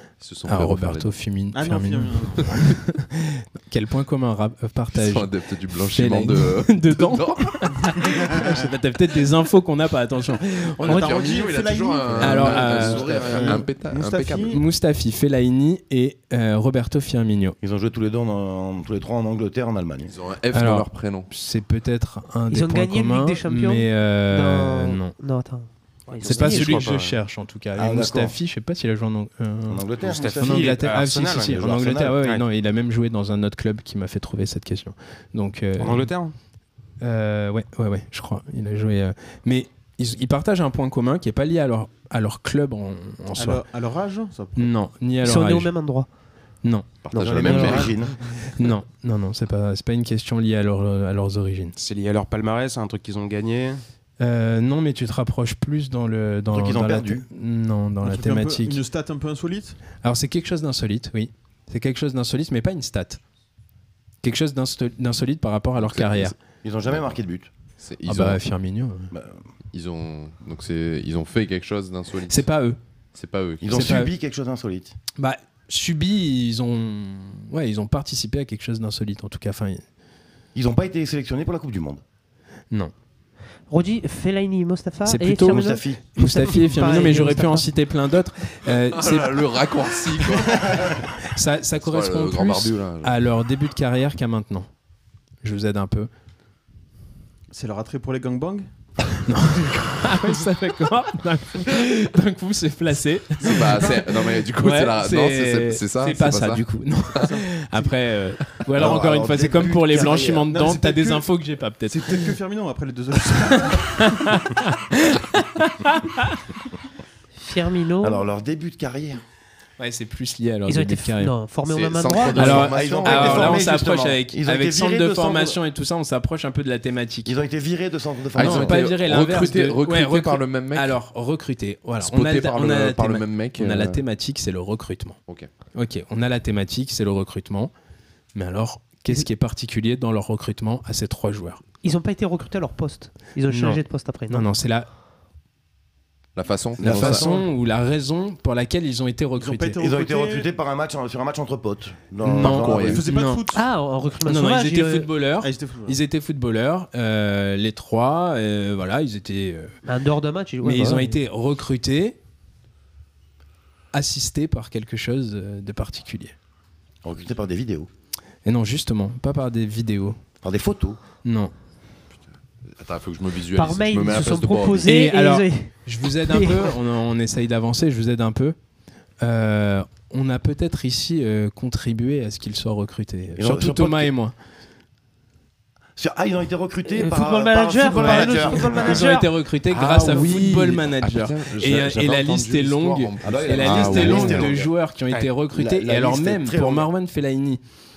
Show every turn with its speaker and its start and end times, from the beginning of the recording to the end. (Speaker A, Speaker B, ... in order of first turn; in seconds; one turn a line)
Speaker A: 0.2-1.1
Speaker B: 0.5-5.3
Speaker C: 1.5-2.6
Speaker A: 4.9-8.1
Speaker B: 5.8-11.2
Speaker A: 10.8-14.6
Speaker C: 10.8-14.6
Speaker B: 12.2-13.6
Speaker D: 13.1-13.5
Speaker B: 14.4-17.6
Speaker D: 17.6-20.1
Speaker A: 20.1-21.3
Speaker B: 20.5-25.1
Speaker E: 22.5-26.9
Speaker F: 26.1-27.1
Speaker B: 26.2-36.1
Speaker D: 27.8-28.4
Speaker D: 29.7-30.9
Speaker F: 30.0-31.6
Speaker D: 31.5-32.2
Speaker F: 35.8-36.3
Speaker B: 37.0-43.6
Speaker C: 43.4-44.7
Speaker B: 44.5-45.7
Speaker E: 45.2-46.1
Speaker A: 47.0-48.0
Speaker D: 47.1-48.1
Speaker B: 47.4-47.9
Speaker B: 48.4-51.7
Speaker F: 51.8-53.8
Speaker B: 54.2-58.8
Speaker D: 56.5-57.2
Speaker C: 58.0-59.8
Speaker B: 60.0-63.2
Speaker B: 64.2-66.3
Speaker A: 65.8-66.4
Speaker D: 66.6-67.5
Speaker A: 66.9-67.2
Speaker A: 67.8-68.4
Speaker B: 68.0-69.1
Speaker D: 69.1-69.4
Speaker A: 69.7-72.5
Speaker B: 72.3-72.8
Speaker A: 73.1-74.0
Speaker D: 73.6-74.9
Speaker B: 73.7-74.1
Speaker B: 75.2-79.8
Speaker D: 80.5-82.0
Speaker E: 83.7-87.7
Speaker B: 85.0-89.4
Speaker D: 85.4-86.0
Speaker A: 88.8-91.1
Speaker B: 91.2-94.7
Speaker A: 91.8-93.2
Speaker B: 95.4-96.1
Speaker C: 97.5-98.7
Speaker B: 99.2-112.3
Speaker A: 103.4-106.7
Speaker C: 107.2-107.9
Speaker D: 108.7-110.5
Speaker C: 110.5-111.3
Speaker C: 111.8-114.3
Speaker B: 113.6-116.6
Speaker E: 117.3-118.2
Speaker D: 118.0-119.2
Speaker B: 119.8-121.3
Speaker E: 120.7-122.7
Speaker A: 121.7-123.7
Speaker D: 122.3-125.6
Speaker B: 122.3-127.3
Speaker D: 127.2-128.8
Speaker A: 128.3-130.9
Speaker B: 128.3-135.2
Speaker A: 132.0-134.0
Speaker B: 135.7-137.7
Speaker B: 138.3-141.6
Speaker E: 141.8-144.5
Speaker B: 143.5-144.9
Speaker A: 146.3-147.4
Speaker D: 146.8-147.4
Speaker B: 146.8-149.8
Speaker C: 149.3-150.5
Speaker D: 149.8-153.0
Speaker B: 152.2-153.5
Speaker A: 152.4-153.1
Speaker C: 152.7-153.7
Speaker E: 153.5-155.1
Speaker B: 154.2-159.8
Speaker C: 155.4-156.0
Speaker E: 159.8-161.2
Speaker B: 160.6-162.2
Speaker B: 163.9-166.3
Speaker D: 167.0-167.9
Speaker B: 168.4-170.2
Speaker D: 170.4-171.0
Speaker B: 171.2-171.5
Speaker A: 172.7-174.9
Speaker E: 173.5-176.8
Speaker B: 174.8-178.6
Speaker B: 179.2-184.3
Speaker D: 183.4-184.1
Speaker D: 185.9-189.1
Speaker E: 186.9-189.3
Speaker B: 188.7-197.6
Speaker A: 189.7-194.6
Speaker D: 193.2-194.7
Speaker D: 195.5-196.9